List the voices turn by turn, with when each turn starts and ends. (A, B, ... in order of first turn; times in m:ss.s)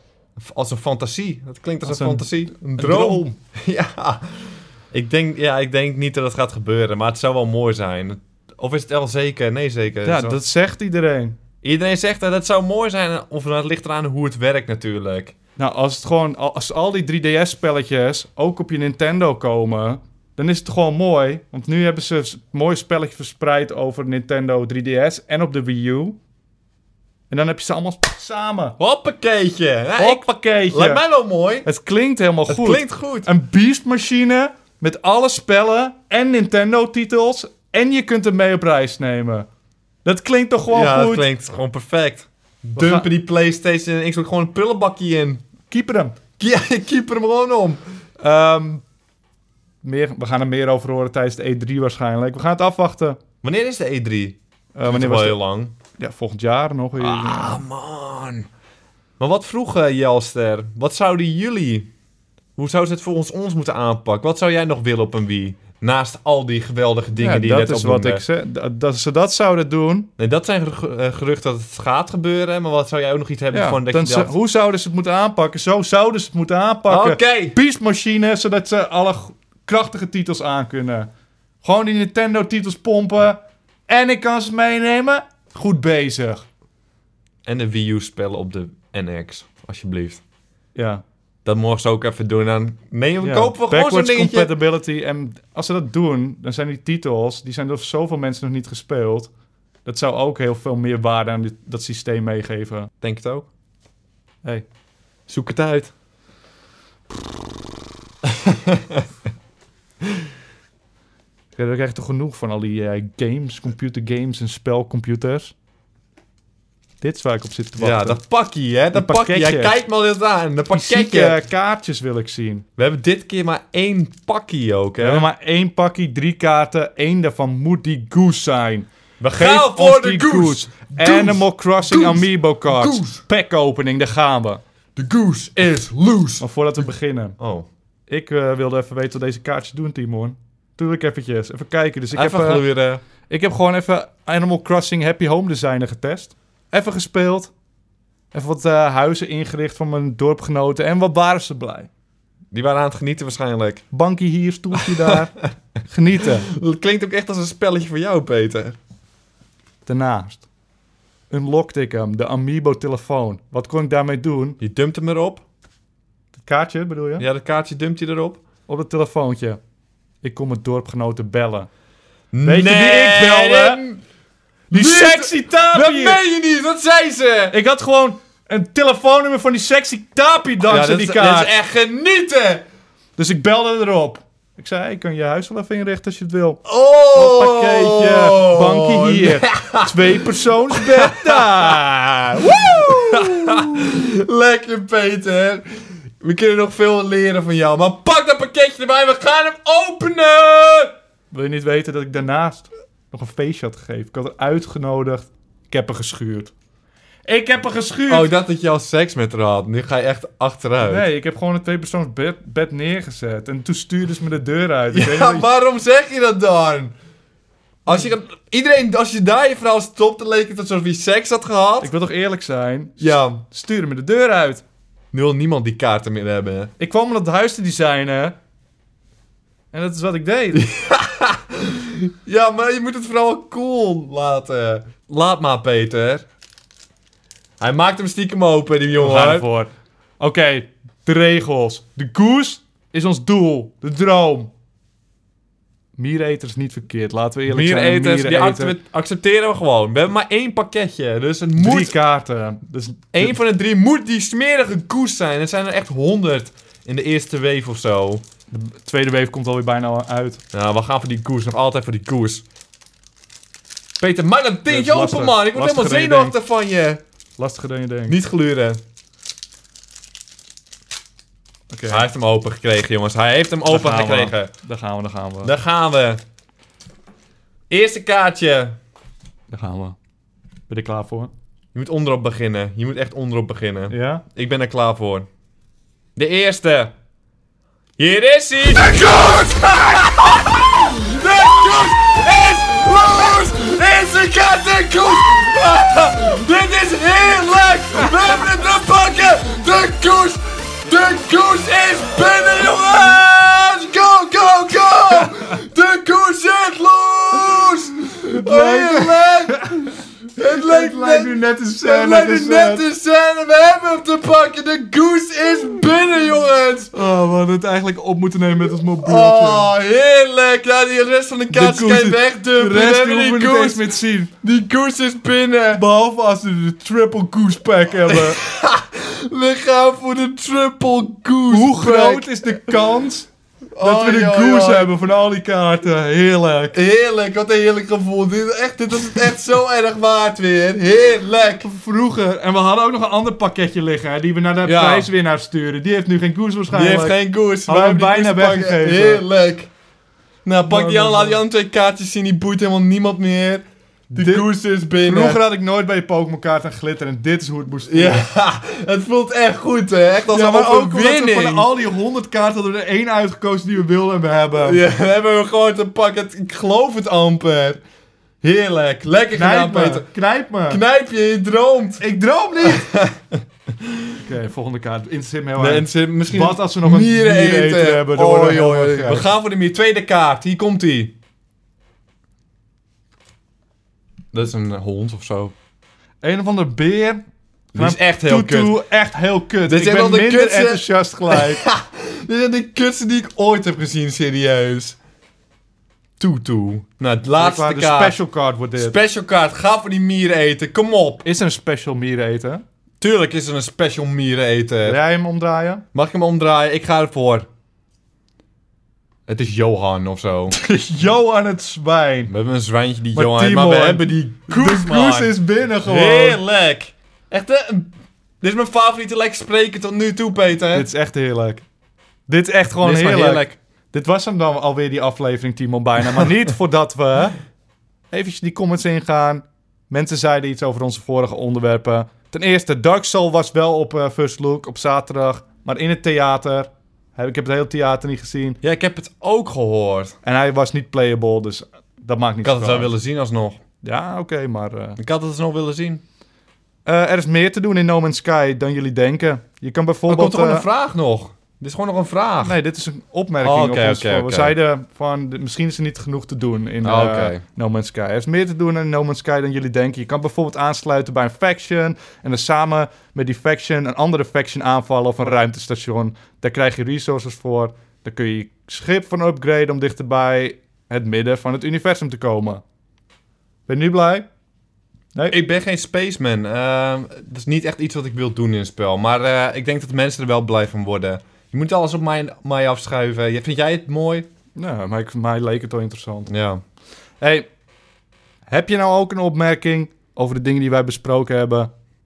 0:00.4-0:10.4 A
0:01.8-0:03.4 B
0:10.0-0:11.4 B
0:11.6-0:15.4 A
0:15.6-0:26.2 B
0:27.3-0:28.8 B
0:28.8-0:31.7 A
0:30.0-0:31.0 B
0:31.6-0:39.5 B
0:32.5-0:33.3 A
0:40.0-0:41.3 B
0:40.7-0:45.4 A
0:42.8-0:43.1 B
0:45.7-0:46.2 B
0:46.4-0:47.8 A
0:48.2-0:48.8 B
0:49.8-0:53.2 B
0:53.4-0:55.7 A
0:54.8-0:55.4 B
0:56.0-0:57.6 B
0:57.0-0:58.5 A
0:59.2-1:01.9 A
1:02.6-1:08.2 A
1:07.2-1:10.1 B
1:10.2-1:14.3 A
1:13.5-1:21.1 B
1:16.9-1:17.6 A
1:21.6-1:26.4 B
1:27.4-1:30.2 A
1:30.8-1:31.0 B
1:31.4-1:34.6 A
1:33.2-1:39.3 B
1:39.8-1:42.9 B
1:43.0-1:43.5 A
1:45.3-1:45.9 A
1:48.3-1:49.0 A
1:51.6-1:55.5 B
1:57.0-1:58.2 B
1:57.8-2:01.4 A
1:58.9-1:59.8 B
2:00.7-2:02.7 B
2:02.8-2:05.3 A
2:05.0-2:14.6 B
2:09.2-2:13.2 A
2:15.0-2:16.4 A
2:16.4-2:17.4 B
2:17.4-2:17.7 A
2:18.1-2:22.6 B
2:22.1-2:23.0 A
2:23.3-2:27.5 B
2:28.3-2:31.9 B
2:32.5-2:33.8 A
2:33.9-2:36.5 B
2:34.8-2:35.2 A
2:36.2-2:38.8 A
2:39.8-2:40.5 B
2:41.3-2:44.6 B
2:44.6-2:45.4 A
2:46.4-2:47.3 B
2:47.2-2:48.4 A
2:48.7-2:49.6 B
2:50.2-2:51.7 B
2:52.3-2:54.0 A
2:52.4-2:53.8 B
2:54.7-2:56.2 B
2:54.7-2:57.6 A
2:57.5-3:01.6 B
3:00.6-3:02.6 A
3:03.2-3:06.6 B
3:06.7-3:15.7 A
3:07.1-3:13.7 B
3:16.2-3:20.9 A
3:21.3-3:26.5 B
3:27.3-3:28.3 B
3:28.1-3:31.1 A
3:30.8-3:35.5 B
3:34.9-3:36.9 A
3:37.9-3:41.9 A
3:41.8-3:44.6 B
3:43.0-3:43.4 A
3:45.1-3:46.7 A
3:46.8-3:48.4 B
3:49.7-3:50.7 B
3:50.6-3:56.2 A
3:57.6-3:59.5 A
3:59.0-4:04.5 B
4:06.0-4:08.8 B
4:07.5-4:12.0 A
4:11.6-4:13.4 B
4:13.1-4:18.2 A
4:18.5-4:20.4 B
4:20.5-4:22.4 A
4:24.0-4:27.0 A
4:24.7-4:26.4 B
4:27.4-4:28.2 B
4:28.1-4:28.8 A
4:31.7-4:32.1 B
4:31.9-4:34.5 A
4:33.6-4:35.5 B
4:35.4-4:36.2 A
4:37.7-4:38.8 A
4:39.5-4:40.0 B
4:40.7-4:41.3 B
4:41.7-4:45.3 A
4:43.9-4:44.2 B
4:46.2-4:46.9 A
4:48.0-5:16.9 A
5:08.3-5:09.7 B
5:10.4-5:12.8 B
5:16.9-5:19.7 B
5:19.0-5:23.9 A
5:21.5-5:24.3 B
5:24.4-5:25.8 A
5:25.7-5:28.4 B
5:28.1-5:32.8 A
5:31.5-5:36.8 B
5:33.8-5:35.0 A
5:36.7-5:41.6 A
5:41.6-5:49.2 B
5:44.6-5:45.1 A
5:46.7-5:49.7 A
5:50.4-5:53.6 A
5:50.6-5:51.4 B
5:54.1-5:54.5 B
5:54.2-5:55.4 A
5:55.0-5:58.3 B
5:57.9-6:01.7 A
6:00.3-6:04.8 B
6:04.6-6:07.8 A
6:08.4-6:10.1 A
6:09.3-6:10.8 B
6:10.7-6:12.0 A
6:12.0-6:12.9 B
6:12.6-6:13.4 A
6:14.2-6:19.3 B
6:15.6-6:21.1 A
6:24.3-6:25.5 A
6:26.2-6:27.2 B
6:27.7-6:28.8 A
6:27.7-6:31.6 B
6:29.7-6:35.0 A
6:36.2-6:38.2 A
6:37.4-6:39.0 B
6:38.8-6:41.2 A
6:41.2-6:42.6 B
6:43.0-6:45.0 A
6:44.8-6:45.8 B
6:45.9-6:47.5 A
6:49.3-6:50.6 A
6:50.5-6:52.3 B
6:52.3-7:00.9 A
6:53.1-6:56.4 B
7:00.7-7:01.6 B
7:02.3-7:07.4 B
7:02.8-7:03.6 A
7:08.1-7:18.6 B
7:18.6-7:20.2 A
7:20.2-7:22.9 B
7:22.4-7:23.6 A
7:23.8-7:25.0 B
7:25.0-7:26.0 A
7:26.8-7:30.7 B
7:30.1-7:32.6 A
7:32.4-7:52.6 B
7:33.4-7:34.6 A
7:36.8-7:37.4 A
7:53.7-7:54.3 B
7:55.3-8:04.3 A
8:04.6-8:06.3 B
8:06.3-8:06.6 A
8:07.2-8:07.5 B
8:08.5-8:11.7 B